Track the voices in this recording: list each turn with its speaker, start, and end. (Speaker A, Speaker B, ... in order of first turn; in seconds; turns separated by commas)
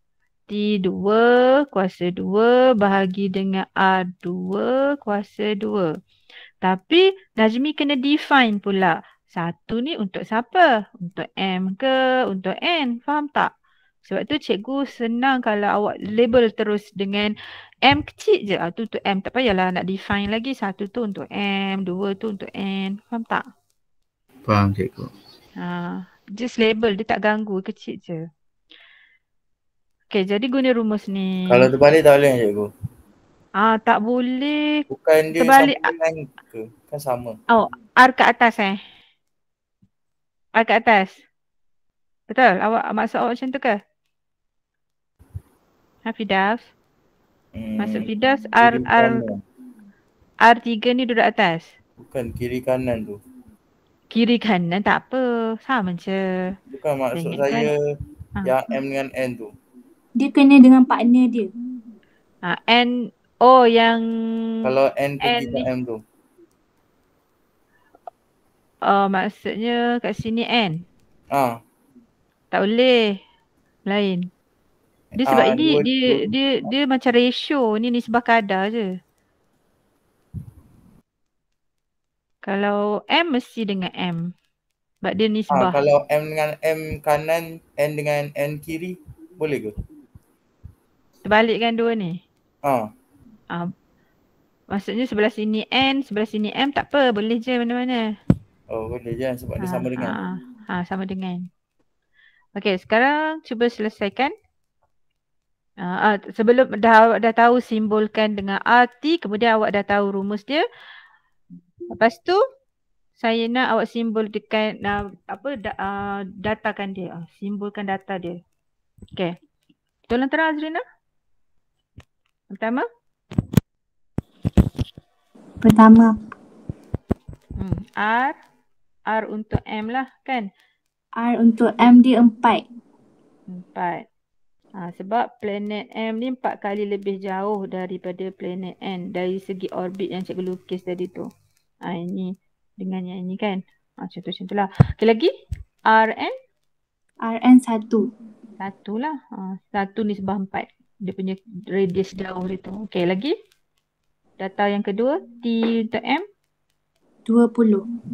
Speaker A: 0.5-5.9, Speaker A: 6.6-13.5, Speaker A: 14.1-17.3, Speaker A: 17.9-23.4, Speaker B: 24.5-25.1, Speaker A: 25.6-28.2, Speaker A: 30.1-31.7, Speaker B: 31.5-32.7, Speaker A: 33.6-34.6, Speaker B: 34.9-37.4, Speaker A: 35.4-35.9, Speaker A: 37.5-38.8, Speaker A: 40.6-41.2, Speaker A: 42.3-43.8, Speaker A: 46.1-46.6, Speaker B: 47.5-48.1, Speaker A: 47.8-49.2, Speaker B: 48.6-49.4, Speaker A: 50.5-51.7, Speaker B: 52.0-53.2, Speaker A: 54.1-56.2, Speaker B: 56.7-57.8, Speaker A: 57.1-57.7, Speaker B: 58.5-59.5, Speaker C: 60.2-61.5, Speaker A: 62.5-64.0, Speaker B: 64.6-66.0, Speaker A: 65.2-65.6, Speaker A: 68.9-70.8, Speaker B: 71.3-71.6, Speaker A: 72.5-73.0, Speaker A: 73.9-74.2, Speaker B: 75.1-76.7, Speaker A: 75.2-78.8, Speaker A: 82.4-84.2, Speaker A: 85.0-85.8, Speaker B: 85.5-89.8, Speaker A: 91.2-92.2, Speaker A: 94.7-98.0, Speaker B: 98.7-100.2, Speaker A: 99.6-101.4, Speaker A: 102.6-104.3, Speaker A: 105.8-110.6, Speaker A: 112.0-112.4, Speaker A: 113.2-118.4, Speaker A: 120.1-120.8, Speaker A: 122.5-122.9, Speaker C: 125.6-126.1, Speaker A: 127.6-128.3, Speaker A: 129.1-130.5, Speaker C: 131.2-132.6, Speaker A: 133.5-134.1, Speaker A: 134.8-141.3, Speaker A: 141.8-145.3, Speaker A: 145.9-146.3, Speaker C: 147.2-148.1, Speaker A: 148.6-153.3, Speaker A: 154.4-156.2, Speaker C: 157.3-157.8